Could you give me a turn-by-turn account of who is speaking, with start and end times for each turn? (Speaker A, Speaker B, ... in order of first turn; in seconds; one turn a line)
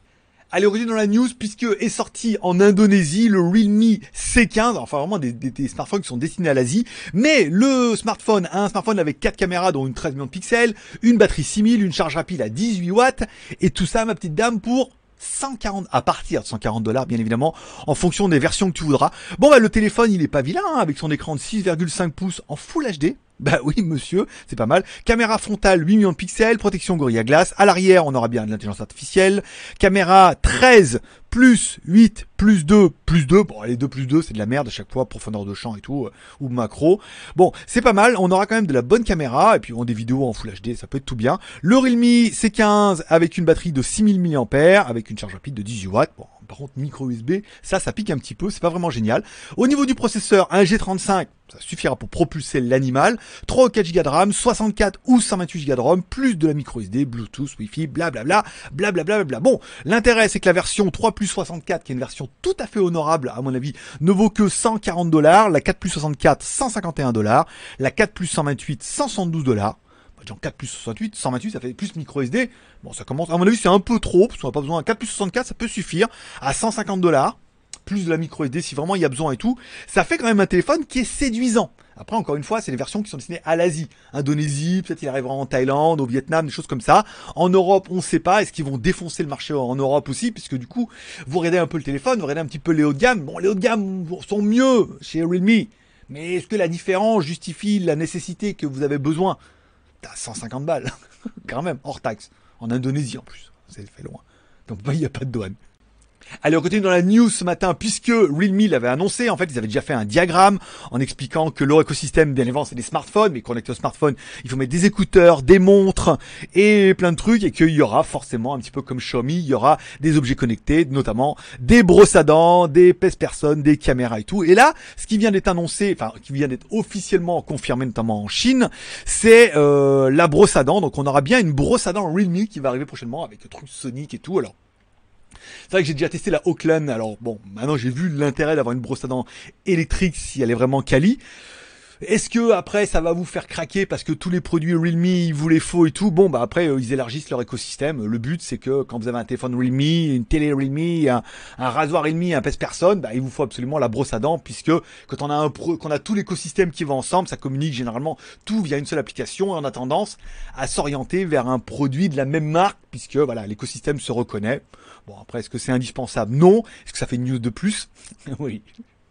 Speaker A: 0.5-99.4
Speaker A: 100.0-100.9
Speaker A: 101.4-105.5
Speaker A: 106.4-134.5
Speaker A: 135.7-141.2
Speaker A: 142.0-168.7